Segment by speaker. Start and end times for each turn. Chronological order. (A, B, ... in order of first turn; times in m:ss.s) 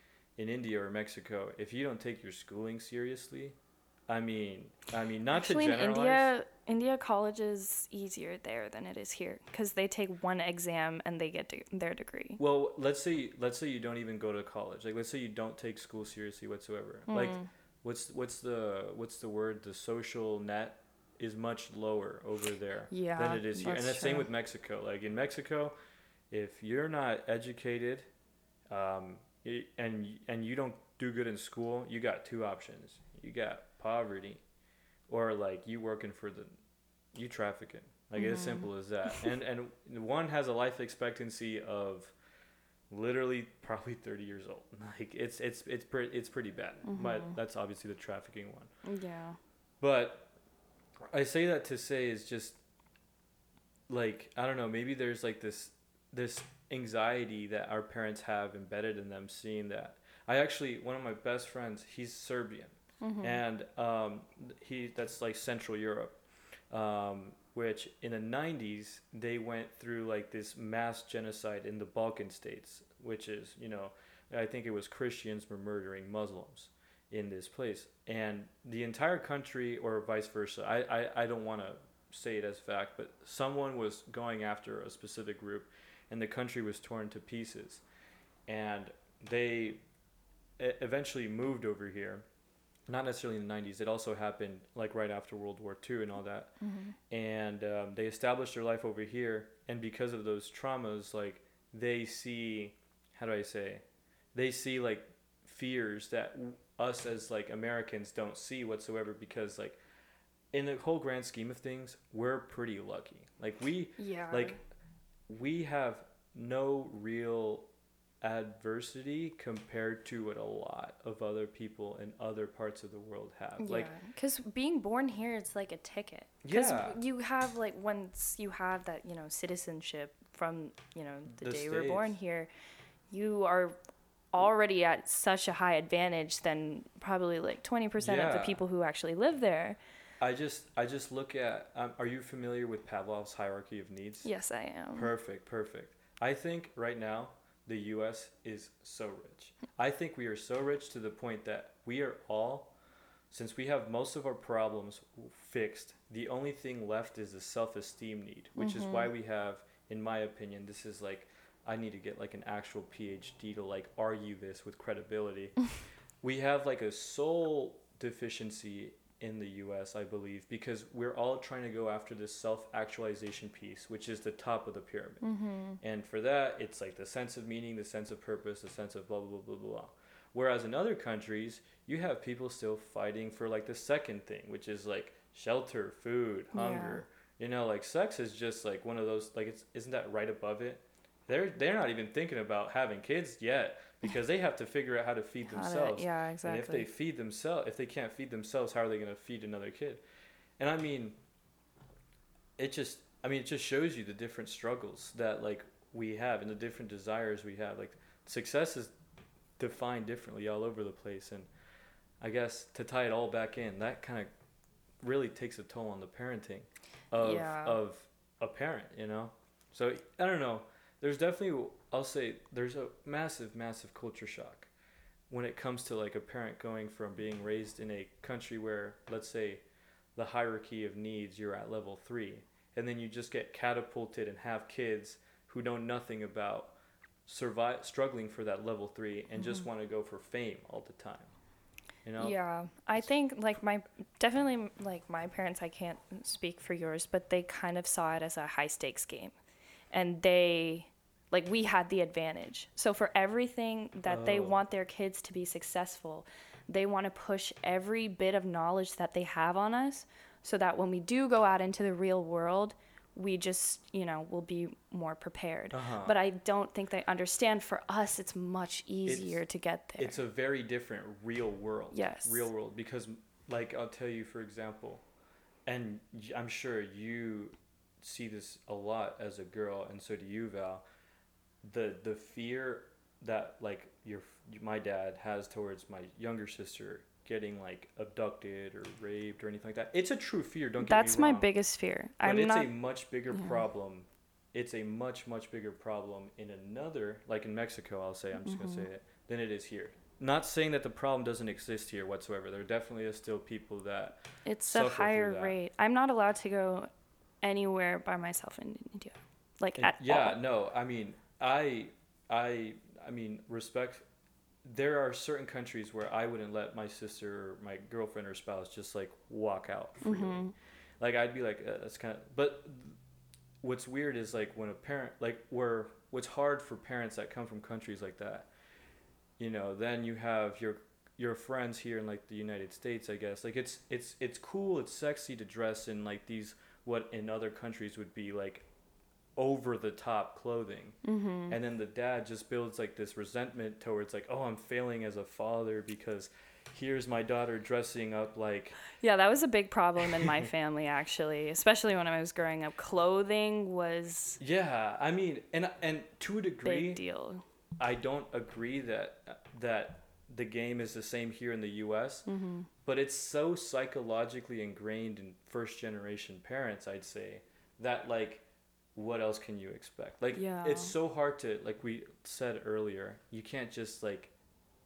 0:00.4-0:03.6 A
0:04.1-0:06.3 A
0:05.3-0:12.4 B
0:12.4-0:25.7 A
0:17.1-0:17.5 B
0:22.9-0:24.3 B
0:26.3-0:28.1 A
0:28.7-0:34.4 A
0:35.1-0:36.6 A
0:37.1-0:42.1 A
0:38.2-0:38.7 B
0:42.9-0:48.7 A
0:46.8-0:47.3 B
0:48.8-0:49.4 B
0:49.8-0:50.3 A
0:51.1-0:52.6 A
0:53.9-1:27.8 A
1:03.0-1:03.4 B
1:28.5-1:29.8 A
1:30.6-1:32.2 A
1:32.9-1:36.5 A
1:36.6-1:36.9 B
1:37.1-1:43.8 A
1:44.3-1:49.8 A
1:50.5-1:54.6 A
1:54.0-1:54.6 B
1:55.3-1:57.7 A
1:58.2-2:03.9 A
2:03.6-2:12.5 B
2:06.4-2:07.0 A
2:11.3-2:12.1 A
2:13.1-2:13.8 B
2:14.3-2:19.8 B
2:18.0-2:18.6 A
2:20.2-2:24.3 A
2:24.2-2:25.1 B
2:24.9-2:32.7 A
2:33.3-2:45.7 A
2:38.6-2:39.1 B
2:46.2-2:55.2 A
2:55.2-2:55.8 B
2:55.8-3:20.0 A
3:06.5-3:07.0 B
3:15.5-3:16.8 B
3:20.6-3:21.2 A
3:22.6-3:28.9 A
3:29.6-3:31.5 A
3:32.2-3:34.3 A
3:35.0-3:44.7 A
3:37.2-3:37.8 B
3:45.3-3:49.6 A
3:50.2-4:01.3 A
4:02.0-4:02.4 A
4:02.2-4:09.3 B
4:09.9-4:30.2 B
4:14.0-4:14.6 A
4:25.7-4:26.2 A
4:29.0-4:29.4 A
4:30.0-4:35.0 A
4:31.9-4:32.5 B
4:35.7-4:40.8 A
4:41.6-4:51.5 A
4:50.8-4:52.7 B
4:52.2-5:05.6 A
4:58.4-4:58.9 B
5:04.4-5:06.9 B
5:07.4-5:10.4 B
5:09.8-5:14.0 A
5:14.6-5:23.0 A
5:20.0-5:20.5 B
5:23.6-5:28.5 A
5:29.4-5:38.6 A
5:39.4-5:41.0 A
5:41.0-5:41.6 B
5:41.5-5:48.9 A
5:48.9-5:54.4 B
5:50.1-5:50.4 A
5:54.4-5:57.0 A
5:56.6-5:57.4 B
5:57.8-6:02.3 A
6:02.3-6:02.7 B
6:02.8-6:08.4 A
6:08.9-6:14.3 A
6:10.3-6:10.9 B